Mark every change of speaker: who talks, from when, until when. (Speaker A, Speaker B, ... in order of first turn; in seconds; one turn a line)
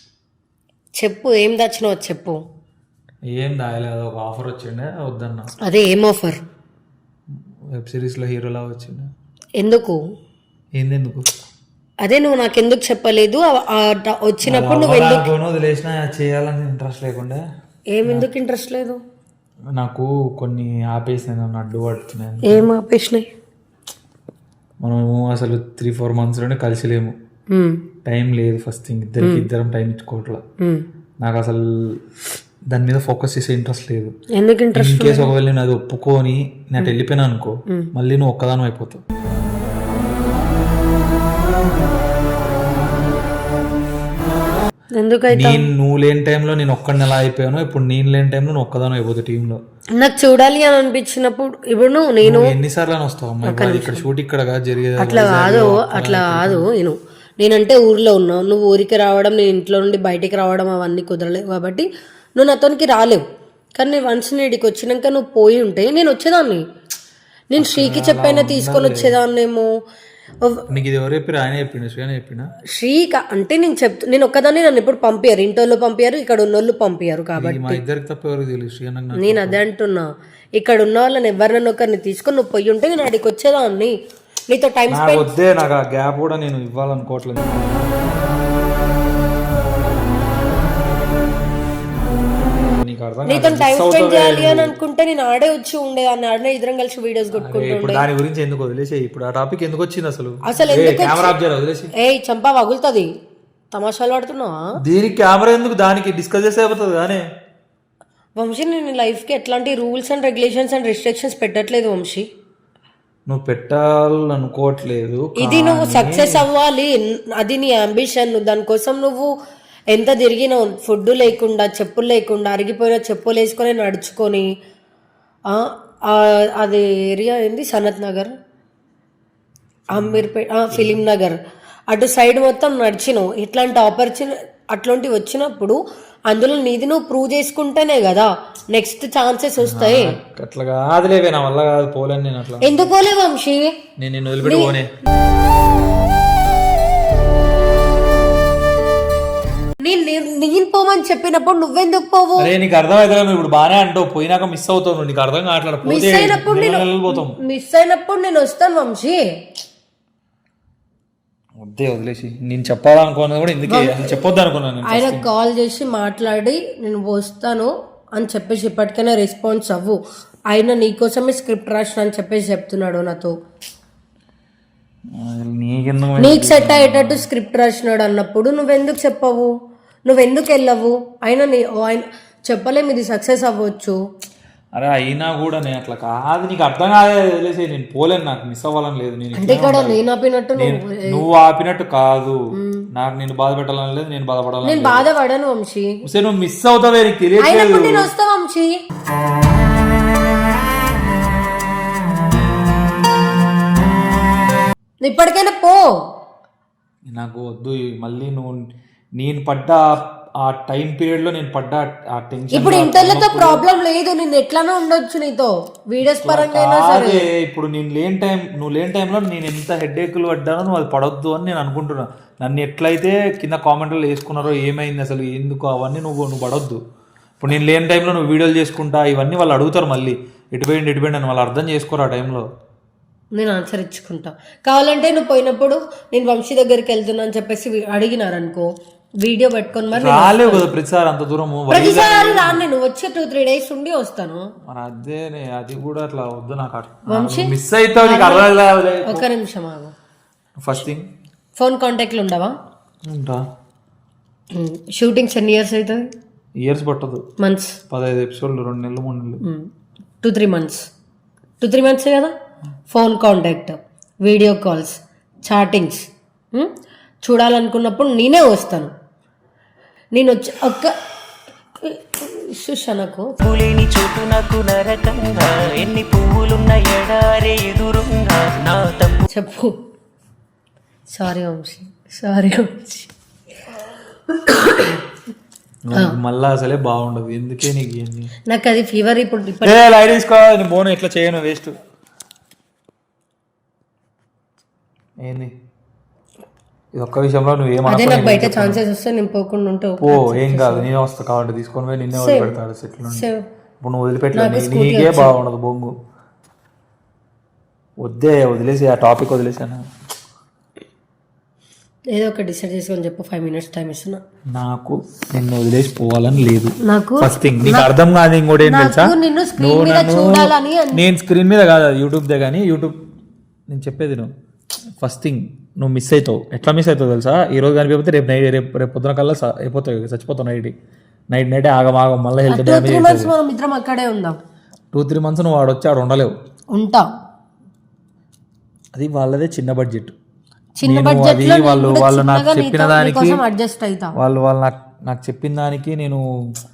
Speaker A: 1.0-2.4
Speaker B: 3.3-5.5
Speaker A: 5.7-6.4
Speaker B: 7.7-9.1
Speaker A: 9.6-10.0
Speaker B: 10.8-11.2
Speaker A: 12.0-15.3
Speaker B: 14.4-17.4
Speaker A: 17.9-19.0
Speaker B: 19.8-22.7
Speaker A: 22.5-23.3
Speaker B: 24.8-27.1
Speaker A: 27.5-27.8
Speaker B: 28.1-30.4
Speaker A: 29.2-29.5
Speaker B: 31.2-31.7
Speaker B: 32.7-34.1
Speaker A: 34.3-35.3
Speaker B: 34.8-39.0
Speaker A: 45.0-45.6
Speaker B: 45.3-49.6
Speaker A: 50.0-52.5
Speaker B: 52.2-56.7
Speaker A: 53.4-54.1
Speaker A: 55.0-63.2
Speaker A: 63.8-66.6
Speaker A: 67.5-69.7
Speaker B: 67.6-69.2
Speaker B: 70.7-72.5
Speaker A: 72.7-77.8
Speaker B: 77.4-79.6
Speaker A: 79.2-83.9
Speaker A: 84.5-85.3
Speaker B: 84.9-87.9
Speaker B: 92.6-94.8
Speaker A: 93.3-98.1
Speaker B: 97.3-101.9
Speaker A: 100.5-101.4
Speaker A: 102.0-103.1
Speaker A: 103.7-104.6
Speaker B: 104.8-107.2
Speaker A: 108.4-112.2
Speaker B: 113.3-116.5
Speaker A: 115.4-119.3
Speaker A: 119.9-124.5
Speaker A: 125.5-128.3
Speaker A: 129.9-131.4
Speaker B: 129.9-131.0
Speaker A: 131.9-140.2
Speaker B: 139.6-142.9
Speaker A: 142.6-143.7
Speaker B: 144.0-144.9
Speaker A: 144.4-144.7
Speaker A: 149.8-152.5
Speaker B: 152.4-157.4
Speaker A: 155.8-159.2
Speaker B: 161.6-165.3
Speaker A: 163.7-164.2
Speaker A: 164.8-170.0
Speaker A: 170.5-173.3
Speaker B: 175.2-177.2
Speaker A: 176.2-179.5
Speaker A: 180.1-184.0
Speaker B: 184.8-190.0
Speaker A: 189.4-191.2
Speaker B: 190.6-192.4
Speaker A: 192.5-192.9
Speaker B: 192.9-195.1
Speaker A: 194.6-196.0
Speaker B: 196.0-198.1
Speaker A: 197.4-198.7
Speaker A: 205.0-205.8
Speaker B: 207.1-208.7
Speaker B: 209.2-213.6
Speaker A: 212.5-217.2
Speaker B: 216.0-226.8
Speaker B: 227.4-232.4
Speaker A: 233.3-238.7
Speaker A: 239.2-240.7
Speaker B: 239.9-242.6
Speaker A: 241.7-244.5
Speaker B: 244.7-249.3
Speaker A: 247.1-248.5
Speaker A: 249.1-249.9
Speaker B: 250.6-251.1
Speaker A: 251.6-252.6
Speaker B: 253.1-253.4
Speaker A: 254.5-256.1
Speaker B: 256.6-257.2
Speaker A: 257.4-257.8
Speaker B: 257.9-259.4
Speaker A: 259.4-259.7
Speaker A: 260.2-260.9
Speaker A: 261.6-262.3
Speaker A: 262.9-266.7
Speaker A: 267.2-268.9
Speaker A: 270.1-270.9
Speaker A: 271.8-273.4
Speaker C: 273.4-279.3
Speaker A: 279.3-279.8
Speaker A: 281.1-283.1
Speaker A: 284.3-285.0
Speaker B: 285.9-288.3
Speaker A: 288.5-289.8
Speaker B: 289.6-291.7
Speaker B: 295.2-295.5
Speaker B: 296.9-298.8
Speaker A: 297.9-300.9
Speaker B: 300.0-303.3
Speaker A: 302.1-302.5
Speaker A: 303.1-303.4
Speaker B: 303.8-305.9
Speaker A: 304.3-305.3
Speaker B: 308.0-309.9
Speaker A: 312.1-314.2
Speaker B: 314.5-322.9
Speaker A: 316.8-317.9
Speaker A: 318.6-321.0
Speaker B: 323.7-324.3
Speaker B: 325.0-330.7
Speaker B: 331.3-333.3
Speaker A: 332.5-334.4
Speaker B: 334.9-336.3
Speaker A: 336.7-337.1
Speaker B: 338.9-340.2
Speaker A: 340.8-344.1
Speaker B: 340.8-343.4
Speaker B: 344.2-346.2